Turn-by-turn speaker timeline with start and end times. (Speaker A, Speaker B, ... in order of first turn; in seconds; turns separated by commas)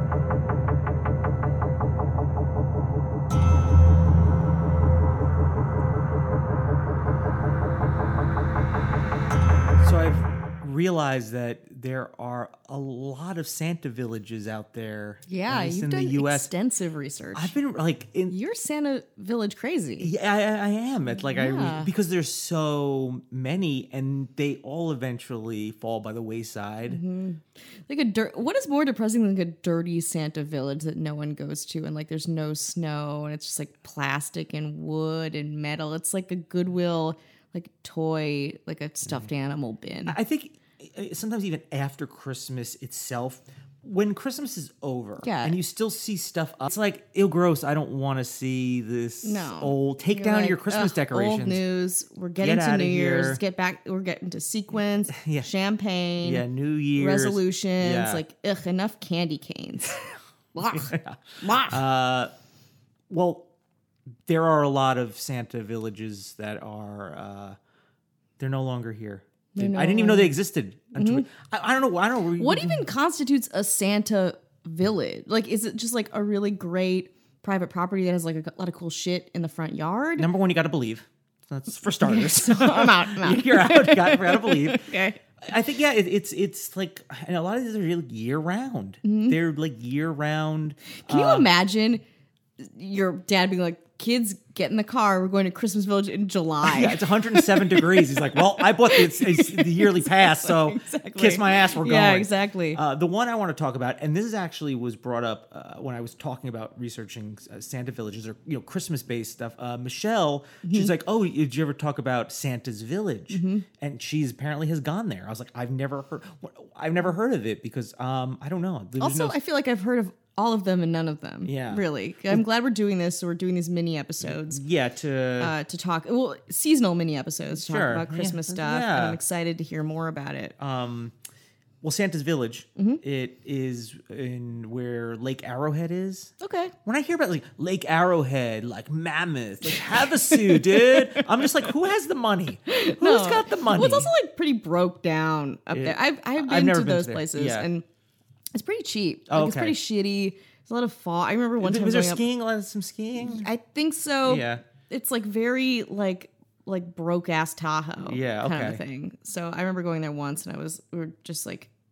Speaker A: 9.8-16.5, Speaker B: 15.3-17.5, Speaker A: 17.3-18.4, Speaker B: 18.3-20.1, Speaker A: 20.0-27.0, Speaker B: 21.2-21.9, Speaker B: 26.9-40.1, Speaker A: 40.1-51.6, Speaker B: 45.2-45.6, Speaker B: 49.2-56.4, Speaker A: 52.4-53.4, Speaker A: 55.1-55.5, Speaker A: 56.2-58.2, Speaker B: 57.0-61.8, Speaker A: 60.7-62.3, Speaker A: 63.1-63.5, Speaker A: 64.3-67.5, Speaker A: 68.4-72.9, Speaker B: 69.5-70.3, Speaker B: 71.0-71.3, Speaker B: 72.4-80.3, Speaker A: 80.2-91.5, Speaker B: 82.0-85.2, Speaker B: 89.0-89.4, Speaker B: 91.0-92.0, Speaker B: 92.6-102.8, Speaker A: 96.6-119.4, Speaker B: 110.6-110.9, Speaker B: 113.3-113.6, Speaker B: 119.0-124.6, Speaker A: 121.4-122.4, Speaker A: 124.2-125.5, Speaker B: 125.4-130.5, Speaker A: 127.6-129.2, Speaker A: 130.6-131.1, Speaker A: 131.8-136.3, Speaker B: 136.4-136.7, Speaker A: 136.8-144.1, Speaker B: 139.6-141.7, Speaker B: 142.7-147.8, Speaker A: 145.7-147.7, Speaker B: 148.5-152.2, Speaker A: 149.3-149.8, Speaker A: 151.6-153.5, Speaker B: 153.2-161.7, Speaker A: 154.2-154.6, Speaker A: 158.0-158.8